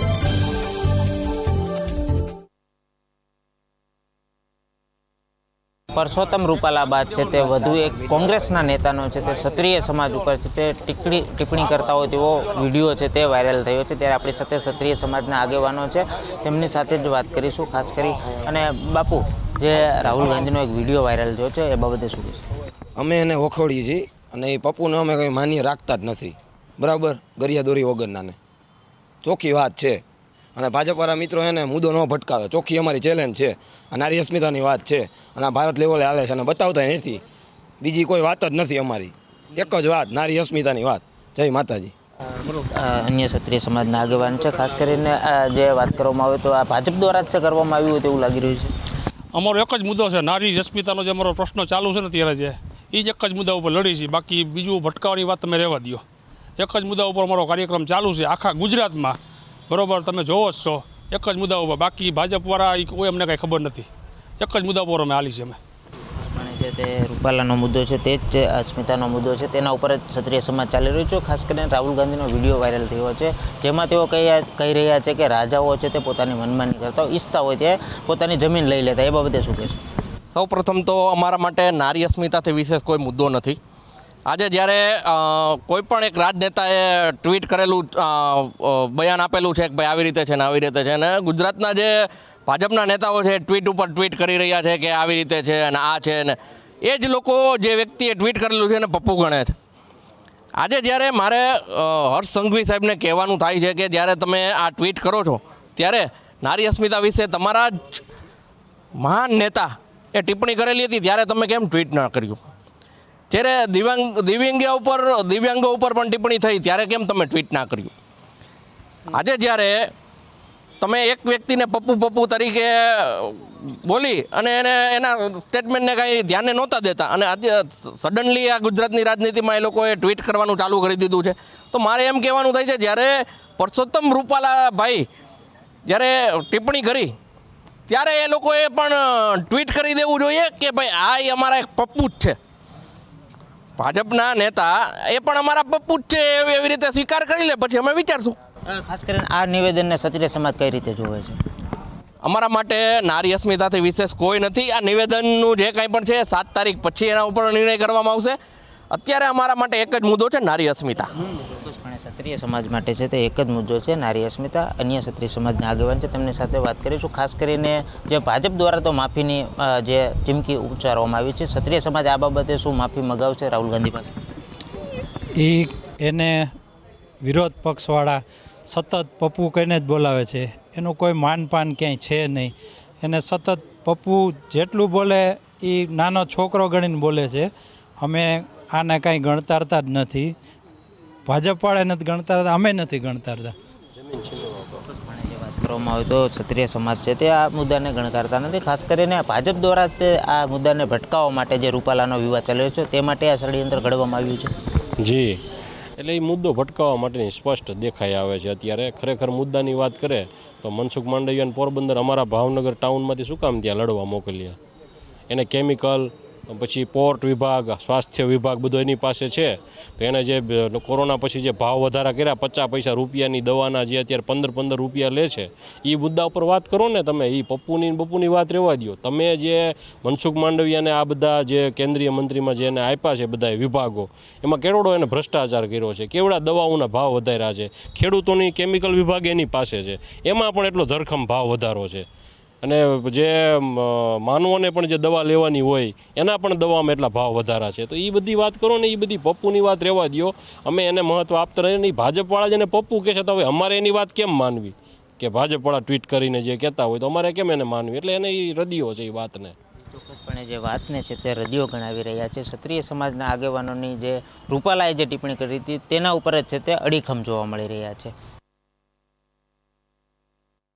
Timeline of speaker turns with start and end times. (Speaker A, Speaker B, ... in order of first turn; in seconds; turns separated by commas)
Speaker A: 5.9-22.4, Speaker B: 23.0-28.4, Speaker B: 29.2-30.0, Speaker B: 30.6-37.2, Speaker B: 37.8-41.9, Speaker A: 42.5-48.7, Speaker C: 49.3-56.0, Speaker C: 56.6-59.2, Speaker C: 59.7-63.9, Speaker C: 64.4-65.6, Speaker A: 66.2-79.8, Speaker D: 80.3-83.6, Speaker D: 84.3-99.5, Speaker D: 100.6-108.0, Speaker D: 109.0-112.4, Speaker D: 113.3-117.9, Speaker D: 119.1-119.9, Speaker D: 120.8-135.1, Speaker D: 135.9-137.1, Speaker D: 137.9-142.3, Speaker D: 143.8-148.3, Speaker A: 148.7-151.4, Speaker D: 152.2-158.4, Speaker D: 158.9-161.1, Speaker A: 161.3-174.1, Speaker E: 175.4-176.5, Speaker E: 177.2-187.5, Speaker E: 188.0-190.3, Speaker E: 191.3-193.5, Speaker F: 194.0-194.8, Speaker A: 194.9-204.5, Speaker F: 205.0-205.4, Speaker F: 206.0-214.6, Speaker F: 215.3-242.1, Speaker F: 242.6-259.6, Speaker A: 259.9-268.1